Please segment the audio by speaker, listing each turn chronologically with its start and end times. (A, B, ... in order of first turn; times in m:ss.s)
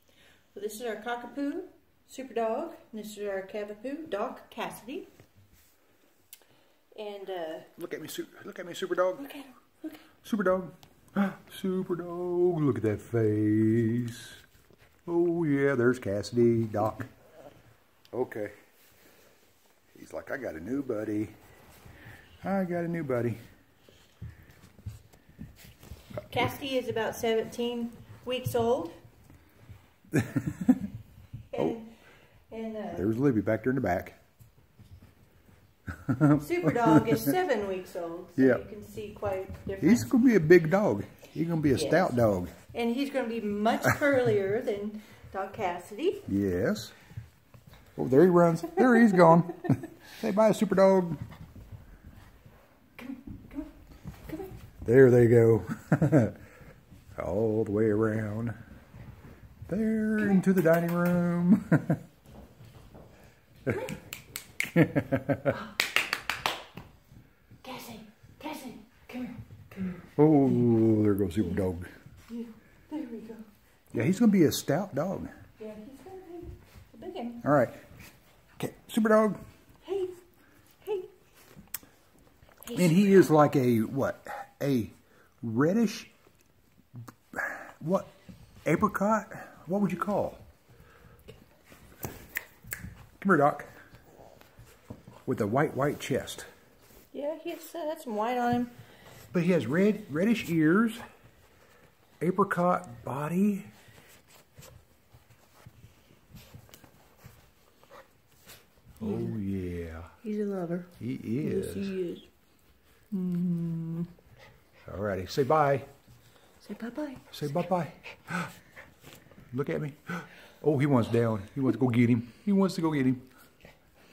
0:00.5-0:05.1 A
0:06.9-0:07.7 A
0:07.8-0:09.3 B
0:09.2-0:10.0 A
0:10.2-0:14.4 B
0:15.1-0:17.1 B
0:18.1-0:18.5 B
0:19.9-0:21.3 B
0:22.4-0:23.4 B
0:26.3-0:28.9 A
0:30.1-0:30.8 B
0:31.5-0:31.9 A
0:32.5-0:33.1 A
0:32.9-0:34.2 B
0:36.0-0:37.2 B
0:36.4-0:40.1 A
0:38.4-0:38.6 B
0:39.8-0:42.5 B
0:41.8-0:42.1 A
0:42.7-0:46.3 A
0:46.3-0:47.0 B
0:48.0-0:51.2 B
0:53.0-0:53.7 A
0:54.8-0:56.4 B
0:57.2-0:58.6 B
0:59.7-1:02.0 B
1:04.7-1:05.5 B
1:07.6-1:10.1 A
1:10.2-1:11.9 B
1:12.3-1:13.5 A
1:13.9-1:15.3 B
1:15.6-1:17.4 A
1:17.4-1:17.8 B
1:18.6-1:19.4 B
1:19.8-1:20.2 A
1:20.8-1:21.1 A
1:22.6-1:23.2 A
1:22.7-1:26.1 B
1:27.3-1:28.1 B
1:28.6-1:30.4 B
1:33.2-1:33.7 B
1:35.2-1:36.5 B
1:37.1-1:38.8 A
1:39.3-1:41.0 B
1:42.2-1:43.7 B
1:49.0-1:50.2 B
1:50.2-1:52.2 A
1:51.0-1:52.0 B
1:53.1-1:54.1 A
1:54.9-1:55.9 B
1:56.6-1:57.2 A
1:57.3-1:58.5 B
1:59.5-2:03.2 B